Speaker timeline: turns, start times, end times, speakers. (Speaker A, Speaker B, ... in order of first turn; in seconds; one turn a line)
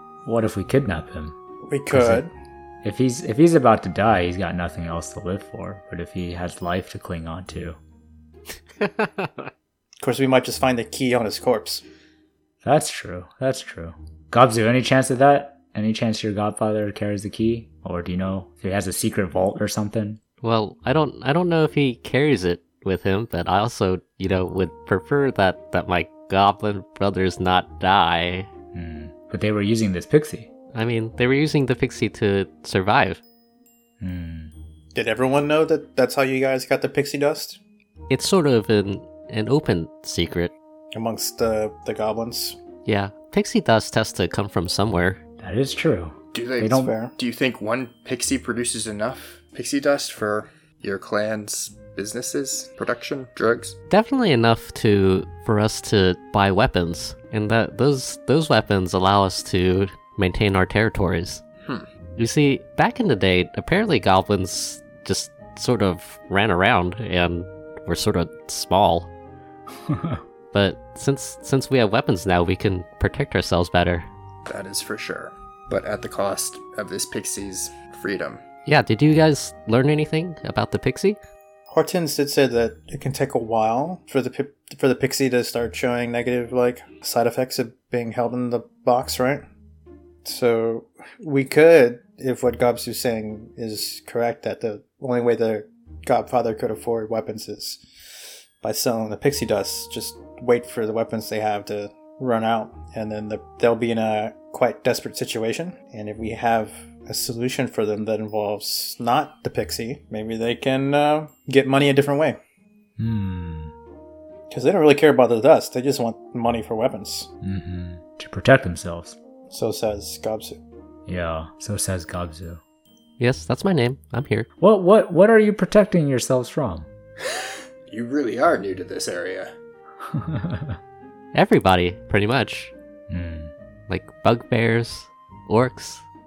Speaker A: 0.2-1.4
Speaker B: 1.7-2.3
Speaker A: 1.9-2.2
Speaker A: 2.8-7.8
Speaker C: 8.8-9.5
Speaker B: 10.0-11.8
Speaker A: 12.6-20.2
Speaker C: 20.4-28.5
Speaker A: 28.7-30.5
Speaker C: 30.7-33.2
Speaker A: 34.0-34.5
Speaker B: 35.0-37.6
Speaker C: 38.1-40.5
Speaker B: 40.9-42.6
Speaker C: 42.9-45.2
Speaker A: 45.4-46.9
Speaker D: 46.3-53.8
Speaker B: 46.8-47.1
Speaker C: 53.9-61.4
Speaker C: 62.2-69.1
Speaker A: 69.9-70.2
Speaker C: 70.5-74.1
Speaker D: 74.5-78.4
Speaker C: 78.7-81.2
Speaker B: 81.7-89.5
Speaker B: 90.2-97.8
Speaker B: 98.6-112.4
Speaker A: 113.0-113.7
Speaker B: 114.5-117.3
Speaker A: 117.4-119.2
Speaker B: 119.5-120.6
Speaker A: 121.1-122.6
Speaker C: 123.2-124.5
Speaker A: 124.6-126.9
Speaker D: 127.3-129.5
Speaker A: 130.0-130.8
Speaker C: 131.3-132.7
Speaker A: 133.1-133.5
Speaker C: 133.9-136.0